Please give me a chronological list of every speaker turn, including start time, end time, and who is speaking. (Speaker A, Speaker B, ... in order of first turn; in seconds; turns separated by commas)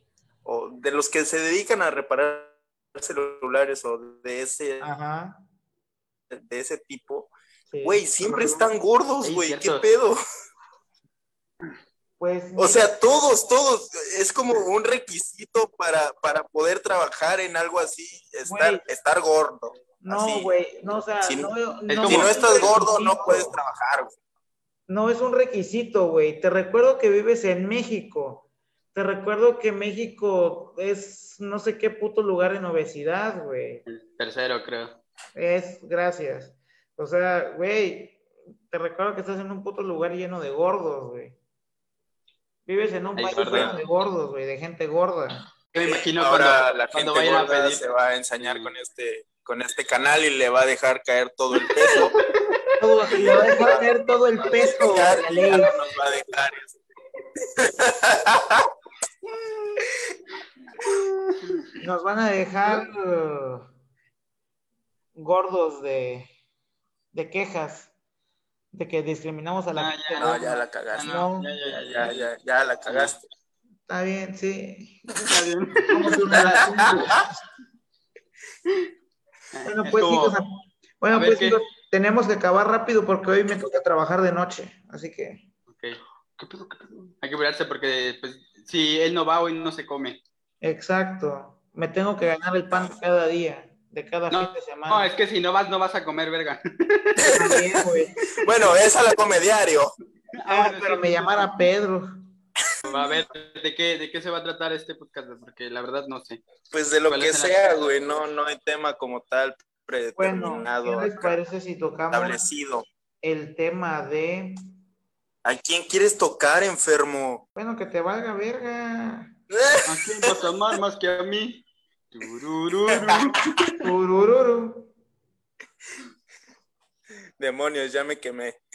Speaker A: 0.5-4.9, Speaker B: 4.8-5.4, Speaker A: 6.3-7.3, Speaker B: 7.7-8.5, Speaker A: 7.8-10.2, Speaker C: 9.2-9.8, Speaker B: 12.2-12.9, Speaker A: 12.6-20.6, Speaker B: 18.4-18.8, Speaker B: 20.0-23.6, Speaker A: 21.2-24.1, Speaker C: 21.9-22.4, Speaker B: 24.9-33.8, Speaker C: 33.9-35.0, Speaker B: 35.4-41.4, Speaker B: 42.7-45.4, Speaker C: 43.2-43.8, Speaker A: 43.5-43.8, Speaker C: 45.7-47.8, Speaker A: 45.9-52.1, Speaker C: 48.4-48.7, Speaker C: 51.6-52.6, Speaker B: 52.8-55.7, Speaker A: 53.1-56.8, Speaker A: 57.4-58.7, Speaker C: 60.8-61.7, Speaker B: 61.8-63.7, Speaker B: 65.2-66.3, Speaker B: 67.1-67.9, Speaker B: 68.7-71.5, Speaker C: 69.8-72.3, Speaker A: 70.2-71.1, Speaker A: 71.7-73.3, Speaker C: 72.9-73.1, Speaker B: 73.9-75.0, Speaker C: 75.2-76.2, Speaker B: 75.9-77.4, Speaker A: 76.3-77.2, Speaker C: 79.5-80.4, Speaker B: 79.7-85.4, Speaker C: 81.1-81.6, Speaker C: 85.7-90.2, Speaker B: 90.6-95.1, Speaker C: 94.3-97.5, Speaker A: 97.2-99.9, Speaker B: 97.4-98.2, Speaker C: 100.3-101.7, Speaker B: 100.4-102.1, Speaker C: 102.8-106.4, Speaker A: 106.7-111.4, Speaker C: 107.1-107.8, Speaker B: 110.2-112.4, Speaker A: 112.1-112.9, Speaker B: 113.2-114.6, Speaker A: 115.5-117.4, Speaker B: 117.6-119.3, Speaker A: 119.5-120.4, Speaker C: 119.9-123.4, Speaker A: 122.9-123.6, Speaker B: 123.8-124.9, Speaker A: 127.4-128.6